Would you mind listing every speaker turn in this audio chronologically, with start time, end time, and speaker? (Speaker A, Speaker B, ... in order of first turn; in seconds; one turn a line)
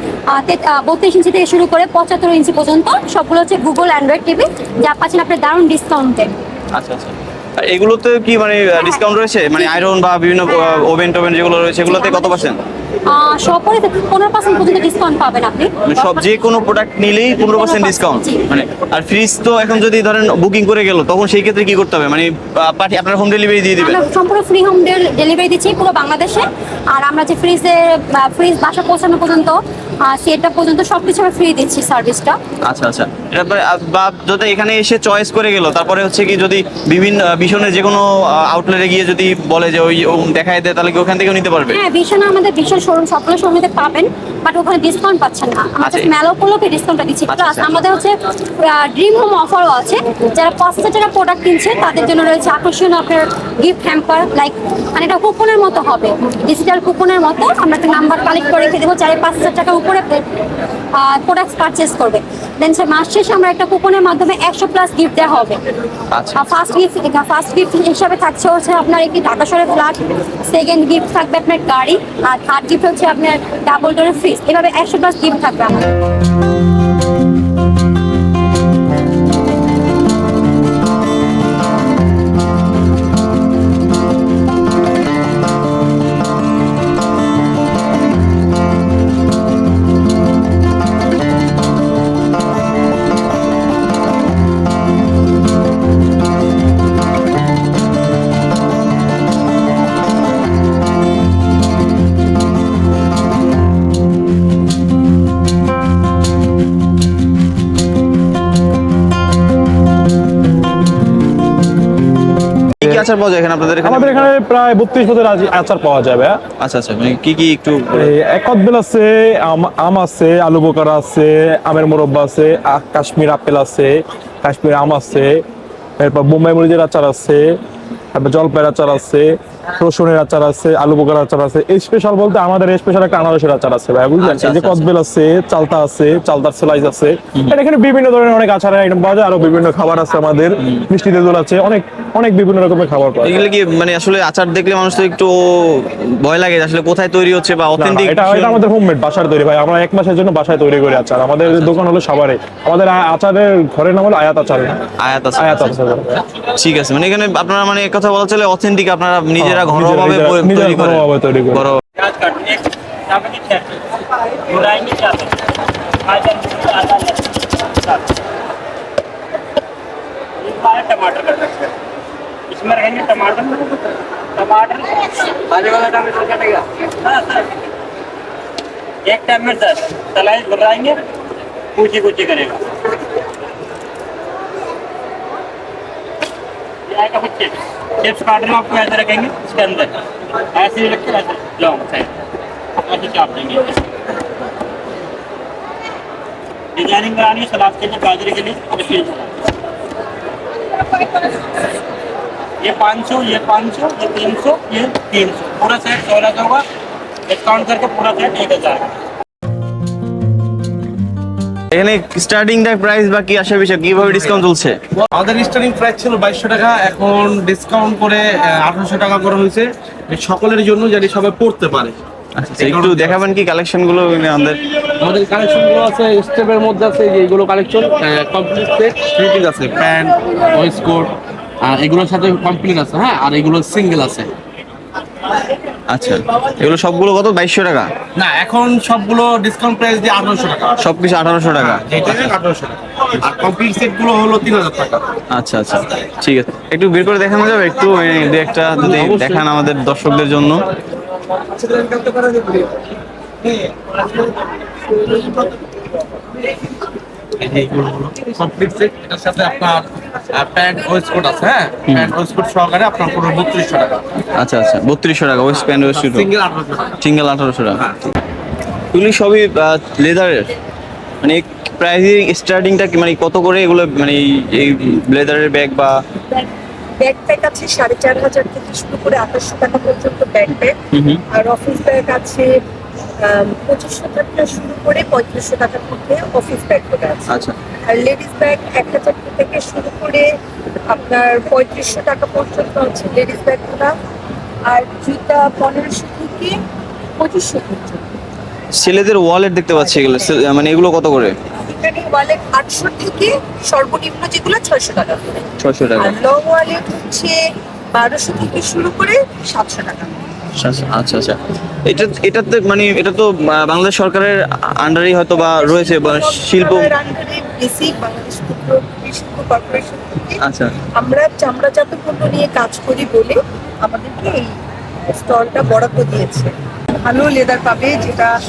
Speaker A: 0.3-6.3
Speaker B: 6.7-12.6
Speaker A: 8.7-9.0
Speaker A: 9.5-9.8
Speaker A: 11.8-12.5
Speaker A: 13.1-16.7
Speaker B: 15.8-24.0
Speaker A: 17.4-18.4
Speaker A: 23.8-32.4
Speaker B: 32.7-41.8
Speaker A: 41.7-60.2
Speaker B: 45.8-46.1
Speaker B: 47.3-47.7
Speaker A: 61.0-65.6
Speaker B: 66.1-66.5
Speaker A: 66.3-75.8
Speaker B: 112.8-114.3
Speaker C: 113.8-116.4
Speaker B: 116.6-118.1
Speaker C: 117.9-125.4
Speaker C: 126.0-127.6
Speaker C: 128.1-143.4
Speaker B: 134.2-134.9
Speaker B: 143.2-148.6
Speaker C: 147.8-154.8
Speaker B: 151.4-151.8
Speaker B: 155.0-155.7
Speaker C: 155.4-156.1
Speaker B: 156.5-161.8
Speaker C: 159.4-161.7
Speaker D: 162.0-163.8
Speaker D: 164.5-165.4
Speaker D: 166.0-168.1
Speaker D: 170.4-171.7
Speaker D: 172.5-173.8
Speaker D: 174.3-177.5
Speaker D: 179.1-181.0
Speaker D: 181.7-182.8
Speaker D: 186.9-189.9
Speaker D: 190.5-192.1
Speaker D: 192.8-193.8
Speaker D: 196.8-199.3
Speaker D: 201.0-201.3
Speaker D: 202.6-206.6
Speaker D: 207.3-208.9
Speaker B: 211.7-214.8
Speaker E: 214.1-214.3
Speaker E: 215.0-221.9
Speaker B: 222.4-224.6
Speaker E: 222.5-223.2
Speaker E: 225.0-234.3
Speaker B: 235.9-237.9
Speaker E: 238.2-240.8
Speaker B: 240.8-242.3
Speaker E: 241.6-245.0
Speaker B: 245.3-250.6
Speaker E: 248.8-249.4
Speaker E: 257.4-264.0
Speaker B: 261.9-262.1
Speaker B: 264.4-266.3
Speaker E: 265.5-267.0
Speaker B: 267.0-267.8
Speaker B: 268.9-270.4
Speaker B: 271.2-276.0
Speaker F: 277.0-280.8
Speaker B: 280.9-281.2
Speaker F: 281.3-282.5
Speaker F: 283.2-287.3
Speaker B: 287.3-287.5
Speaker F: 287.8-290.3
Speaker F: 290.9-293.9
Speaker F: 294.7-296.6
Speaker F: 297.2-298.0
Speaker B: 298.8-301.3
Speaker F: 301.6-305.5
Speaker B: 305.6-306.1
Speaker F: 306.0-307.4
Speaker F: 307.9-310.2
Speaker B: 310.6-316.9
Speaker F: 315.4-320.4
Speaker B: 320.4-320.7
Speaker F: 321.0-324.5
Speaker F: 325.1-326.5
Speaker F: 327.0-328.3